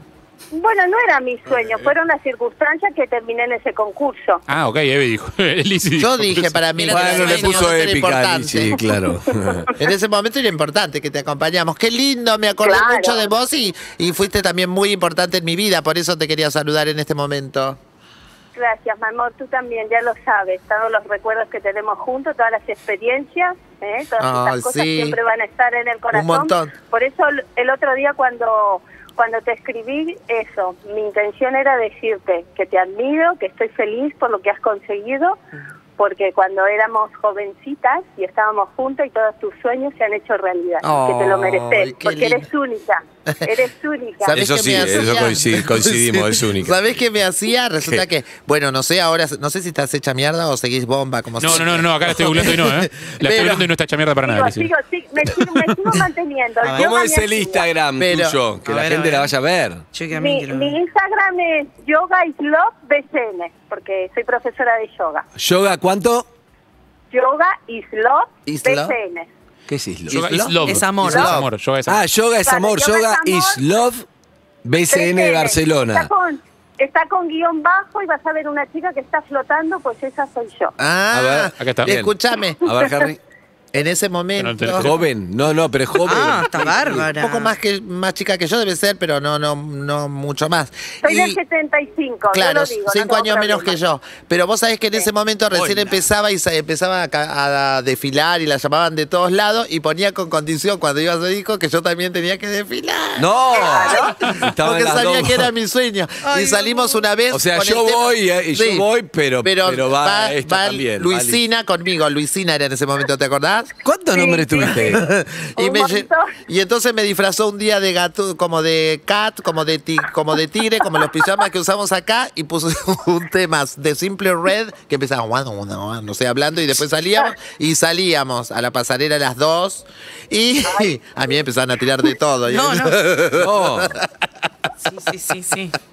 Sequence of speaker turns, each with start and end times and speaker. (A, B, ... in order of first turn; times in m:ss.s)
0:00.5-0:04.4 A
0:04.5-0:06.5 B
0:06.0-0:08.8 C
0:06.8-0:07.8 D
0:06.9-0:09.7 E
0:09.8-0:17.8 C
0:12.6-0:13.2 A
0:18.5-0:35.4 A
0:24.2-0:25.2 C
0:26.1-0:26.7 C
0:36.0-0:45.1 A
0:40.8-0:42.5 C
0:44.2-0:53.7 C
0:44.3-0:46.9 E
0:51.4-0:54.7 B
0:54.2-0:57.7 A
0:56.6-0:56.9 D
0:56.7-0:59.8 E
0:58.0-0:58.4 C
0:58.6-0:59.3 D
0:59.9-1:00.7 D
1:00.1-1:05.2 A
1:05.4-1:06.3 E
1:07.1-1:09.3 A
1:08.4-1:09.0 C
1:09.7-1:10.3 E
1:10.1-1:11.5 C
1:10.1-1:12.0 B
1:10.6-1:11.4 D
1:11.0-1:11.3 A
1:11.9-1:14.0 E
1:12.4-1:13.6 A
1:14.6-1:16.1 E
1:14.8-1:20.7 A
1:20.8-1:22.8 C
1:21.1-1:22.1 E
1:21.6-1:21.9 B
1:22.6-1:23.2 E
1:23.7-1:24.9 C
1:24.4-1:25.0 B
1:24.7-1:27.1 E
1:26.0-1:27.5 D
1:27.1-1:31.4 C
1:31.0-1:33.8 A
1:32.3-1:48.9 C
1:35.5-1:35.8 E
1:43.2-1:45.5 E
1:43.5-1:44.1 A
1:46.2-1:47.0 D
1:47.3-1:51.4 E
1:49.4-1:53.7 C
1:53.8-1:55.0 E
1:54.1-1:55.0 A
1:54.8-2:14.1 C
1:55.6-1:56.4 A
2:12.5-2:13.0 D
2:13.4-2:14.0 E
2:14.8-2:15.7 D